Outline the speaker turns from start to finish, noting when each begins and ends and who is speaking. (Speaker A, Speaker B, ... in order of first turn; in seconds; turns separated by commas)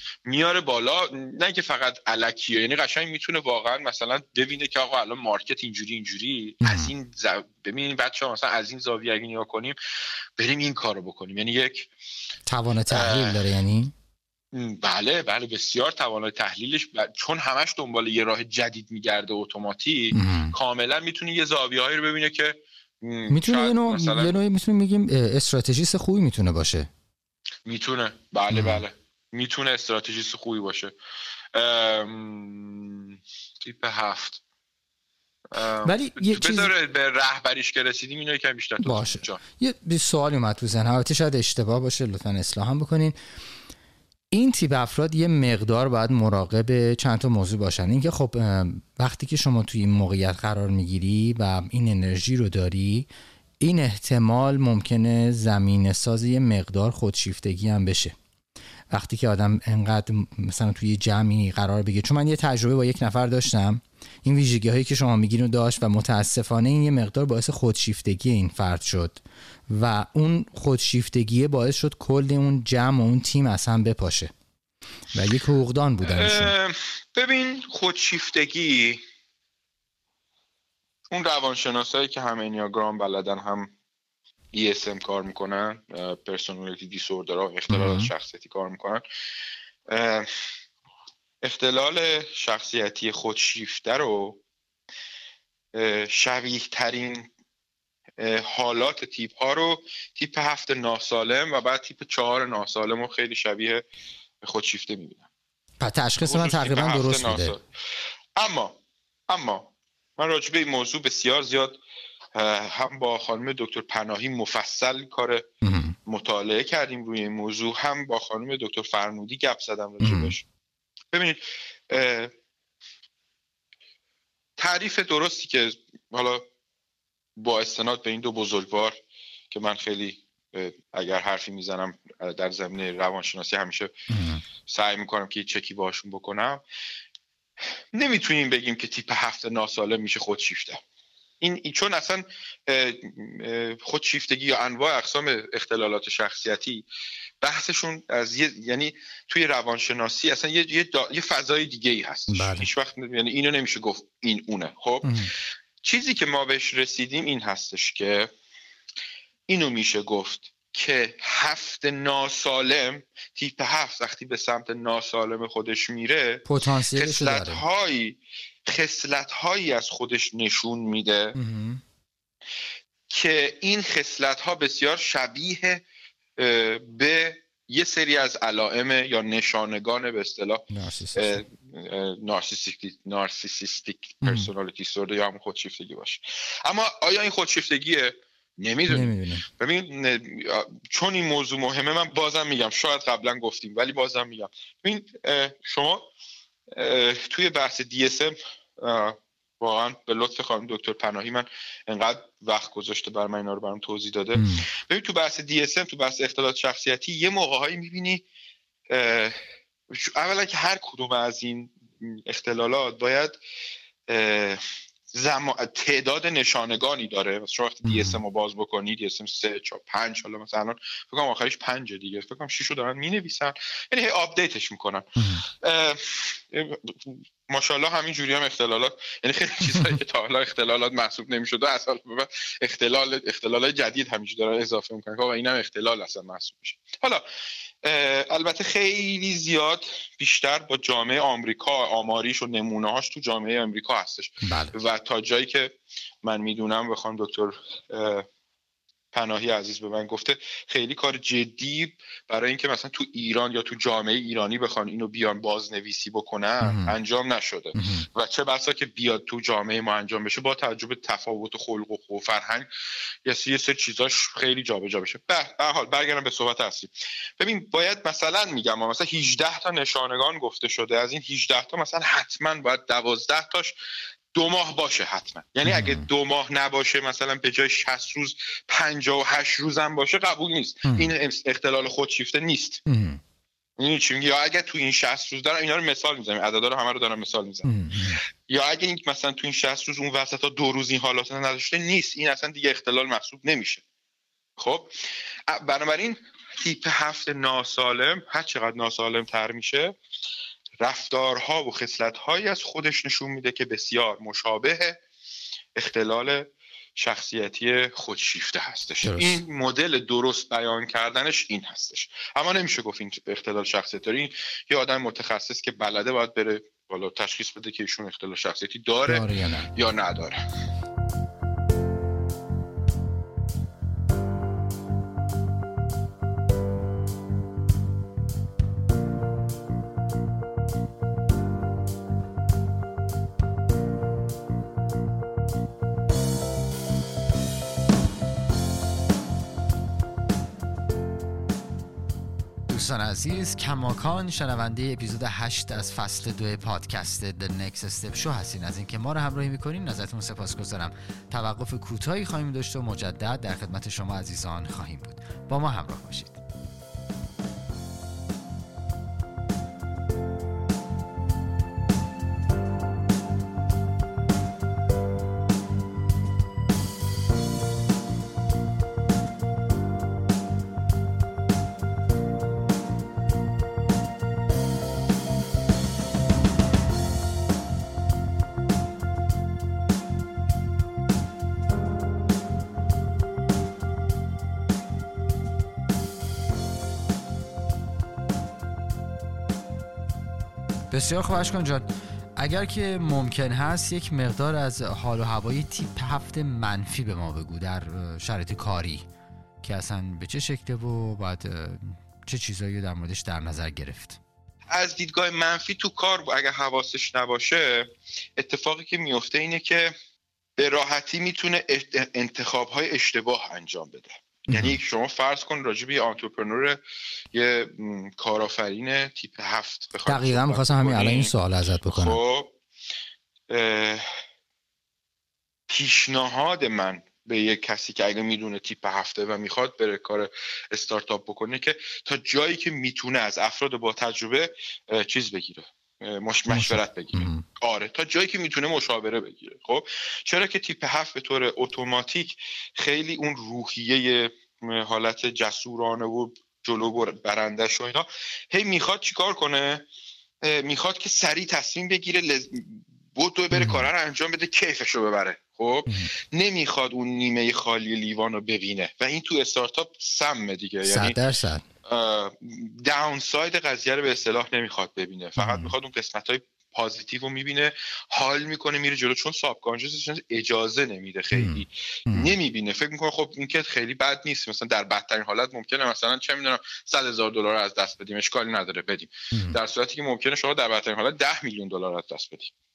Speaker A: 0.2-9.8, Speaker B: 6.6-6.9, Speaker A: 10.4-11.9, Speaker B: 12.5-13.9, Speaker A: 12.9-13.4, Speaker A: 14.5-24.4, Speaker B: 20.1-20.5, Speaker B: 23.3-26.9, Speaker A: 27.6-30.9, Speaker B: 28.5-28.8, Speaker A: 31.5-34.4, Speaker A: 35.5-39.4, Speaker B: 35.8-36.7, Speaker B: 38.8-43.1, Speaker B: 44.3-53.1, Speaker B: 53.6-58.1, Speaker B: 58.9-74.3, Speaker B: 75.1-76.5, Speaker A: 76.0-79.0, Speaker A: 81.1-83.7, Speaker A: 84.5-89.0, Speaker B: 87.7-88.1, Speaker A: 89.9-90.3, Speaker A: 91.4-94.4, Speaker A: 95.7-97.3, Speaker A: 98.2-103.8, Speaker A: 104.4-105.3, Speaker B: 105.8-107.5, Speaker A: 106.2-107.6, Speaker A: 108.3-111.8, Speaker A: 112.3-115.5, Speaker B: 115.6-116.0, Speaker A: 116.0-120.4, Speaker B: 120.0-120.3, Speaker A: 121.1-122.3, Speaker A: 124.6-126.5, Speaker A: 127.3-128.9, Speaker A: 129.5-133.9, Speaker B: 134.1-134.4, Speaker A: 134.6-136.6, Speaker A: 137.9-140.8, Speaker A: 141.4-146.8, Speaker A: 147.4-155.1, Speaker B: 152.3-152.7, Speaker B: 155.0-155.3, Speaker A: 155.8-158.3, Speaker A: 159.5-171.3, Speaker B: 166.4-167.6, Speaker B: 171.3-171.8, Speaker A: 173.1-175.8, Speaker A: 176.4-196.1, Speaker B: 180.7-181.4, Speaker B: 184.2-184.5, Speaker B: 188.9-189.4, Speaker A: 196.7-208.2, Speaker B: 204.3-204.7, Speaker A: 208.9-213.4, Speaker A: 214.1-237.2, Speaker B: 217.8-218.2, Speaker B: 225.2-225.4, Speaker B: 229.7-230.0, Speaker A: 237.8-248.3, Speaker B: 244.4-244.7, Speaker A: 249.1-262.7, Speaker B: 256.6-256.9, Speaker B: 257.7-258.1, Speaker A: 263.2-273.8, Speaker A: 274.3-282.8, Speaker B: 275.6-276.1, Speaker B: 280.9-281.1, Speaker B: 282.9-283.2, Speaker A: 283.8-293.8, Speaker B: 287.6-288.2, Speaker A: 294.6-299.9, Speaker A: 300.8-305.0, Speaker A: 305.8-320.4, Speaker B: 309.0-309.4, Speaker B: 319.1-319.7, Speaker B: 342.7-356.4, Speaker B: 390.9-399.1, Speaker B: 399.6-404.2, Speaker A: 404.7-409.9, Speaker A: 410.6-416.8, Speaker B: 414.5-414.8, Speaker A: 417.3-421.3, Speaker B: 420.1-422.2, Speaker A: 421.9-422.5, Speaker A: 423.5-424.2, Speaker A: 425.7-449.9, Speaker B: 436.5-437.4, Speaker A: 450.4-461.2, Speaker B: 453.5-453.9, Speaker B: 455.9-456.1, Speaker B: 460.8-461.6, Speaker A: 461.8-482.5, Speaker B: 465.4-465.7, Speaker B: 471.3-472.3, Speaker B: 479.3-479.6